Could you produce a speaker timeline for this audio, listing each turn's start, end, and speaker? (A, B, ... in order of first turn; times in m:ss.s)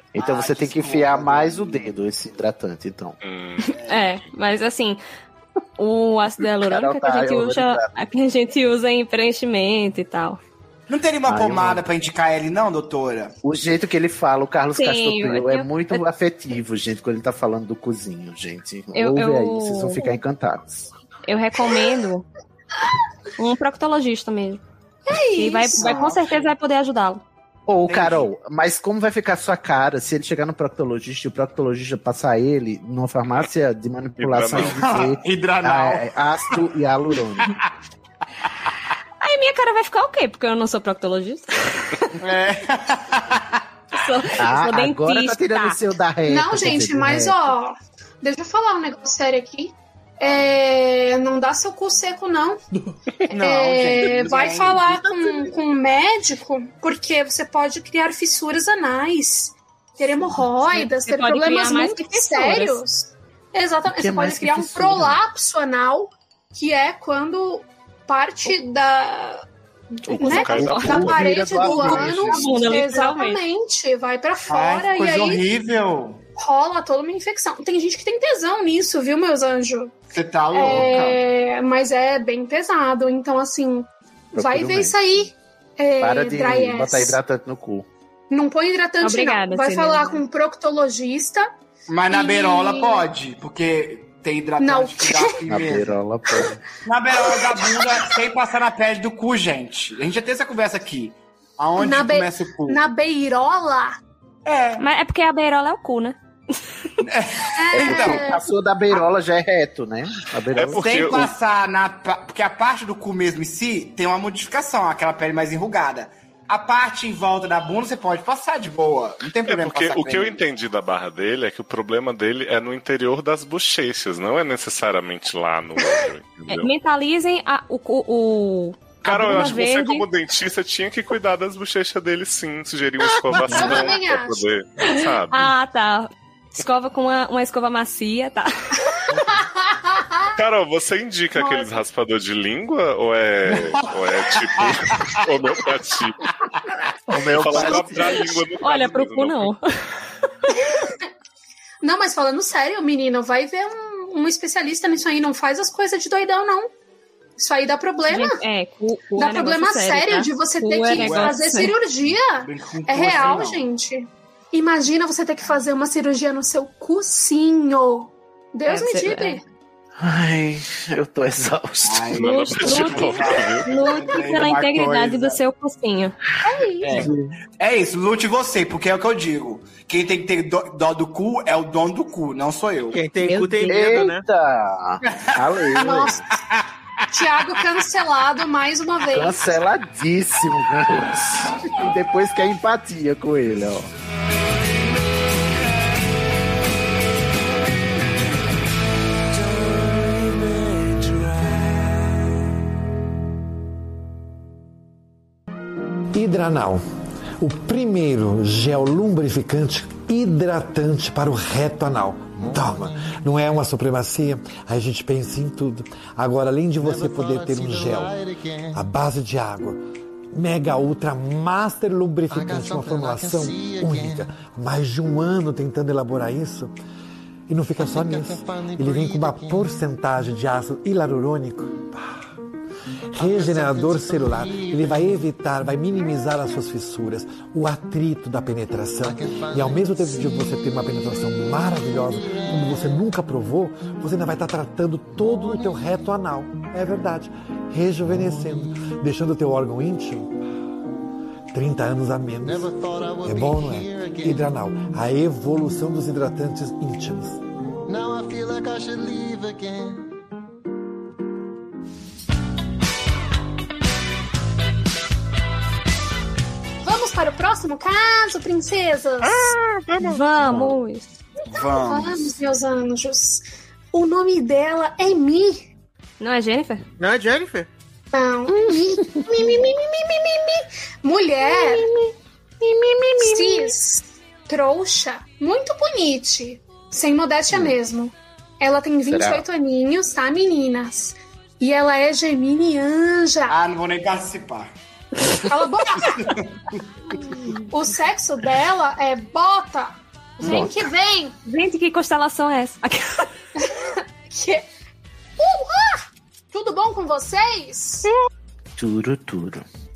0:00.1-0:03.2 A
0:00.1-0:02.0 B
0:03.2-0:03.7 C
0:03.7-0:04.1 B
0:03.9-0:05.0 D
0:05.8-0:10.4 D
0:06.6-0:07.9 A
0:10.9-0:13.3 B
0:11.2-0:11.8 A
0:13.4-0:20.9 A
0:14.7-0:16.0 D
0:18.9-0:20.1 D
0:21.2-0:22.2 D
0:23.4-0:24.6 D
0:25.1-0:26.1 E
0:25.3-0:27.2 D
0:25.7-0:26.5 B
0:27.7-0:37.5 A
0:27.8-0:28.3 B
0:34.2-0:34.8 C
0:34.5-0:36.6 B
0:39.2-0:42.0 D
0:42.2-0:43.6 B
0:43.9-0:45.8 D
0:44.4-0:47.5 A
0:46.2-0:52.6 E
0:53.3-0:55.4 B
0:53.3-1:09.4 E
1:00.6-1:02.8 D
1:03.8-1:05.2 A
1:10.1-1:11.2 C
1:10.1-1:15.4 E
1:10.4-1:12.5 A
1:10.5-1:11.0 D
1:11.0-1:12.6 B
1:12.3-1:13.4 D
1:14.5-1:16.2 B
1:16.4-1:20.0 E
1:20.1-1:21.2 B
1:20.5-1:27.2 E
1:24.3-1:25.0 A
1:26.0-1:27.9 A
1:28.3-1:31.5 E
1:29.0-1:30.2 D
1:31.9-1:36.0 B
1:32.1-1:33.1 E
1:34.6-1:35.4 E
1:35.5-1:36.6 A
1:36.8-1:42.8 B
1:37.3-1:38.1 E
1:41.8-1:43.9 E
1:44.4-1:44.8 B
1:44.8-1:46.2 D
1:47.0-1:48.2 B
1:47.6-1:49.0 E
1:47.7-1:51.2 A
1:50.5-1:51.3 C
1:50.6-2:00.4 B
1:59.4-2:06.7 C
2:06.5-2:10.0 D
2:09.0-2:15.5 C
2:13.4-2:14.5 E
2:14.8-2:18.5 D
2:19.3-2:20.0 E
2:20.4-2:26.2 C
2:21.3-2:21.8 E
2:23.5-2:25.2 B
2:27.1-2:28.2 A
2:27.2-2:29.5 C
2:28.6-2:29.6 D
2:31.8-2:36.7 E
2:37.4-2:38.4 E
2:38.1-2:41.7 D
2:39.1-2:49.4 E
2:40.9-2:41.4 B
2:42.4-2:43.6 B
2:48.7-2:49.4 D
2:50.0-2:52.2 A
2:51.8-2:55.4 B
2:52.1-2:53.7 C
2:52.3-2:56.2 D
2:56.4-2:57.0 E
2:56.8-3:03.0 B
2:56.9-2:57.3 A
3:02.9-3:04.2 F
3:03.5-3:06.2 A
3:05.0-3:05.9 B
3:05.8-3:06.2 E
3:07.1-3:09.4 E
3:09.1-3:13.9 A
3:26.1-3:26.8 G
3:27.4-3:39.8 G
3:32.4-3:32.9 H
3:36.8-3:38.8 H
3:40.3-3:46.7 G
3:42.3-3:44.2 H
3:47.5-3:52.0 G
3:47.8-3:49.7 H
3:53.1-4:10.3 G
3:53.2-3:55.0 H
3:59.0-4:00.4 H
4:02.1-4:02.8 H
4:05.2-4:05.7 H
4:08.2-4:08.6 H
4:11.5-4:17.4 G
4:12.4-4:14.4 H
4:17.8-4:20.0 H
4:26.8-4:29.5 E
4:30.0-4:31.1 D
4:30.4-4:30.7 A
4:31.5-4:32.3 B
4:31.5-4:35.6 E
4:36.2-4:36.8 D
4:37.0-4:37.7 F
4:38.1-4:41.9 E
4:43.0-4:53.6 E
4:49.1-4:49.4 A
4:53.5-4:54.7 B
4:55.4-4:56.3 E
4:57.5-5:01.3 E
5:00.4-5:00.7 A
5:01.4-5:03.3 D
5:03.6-5:04.6 E
5:05.4-5:08.1 E
5:08.8-5:09.7 A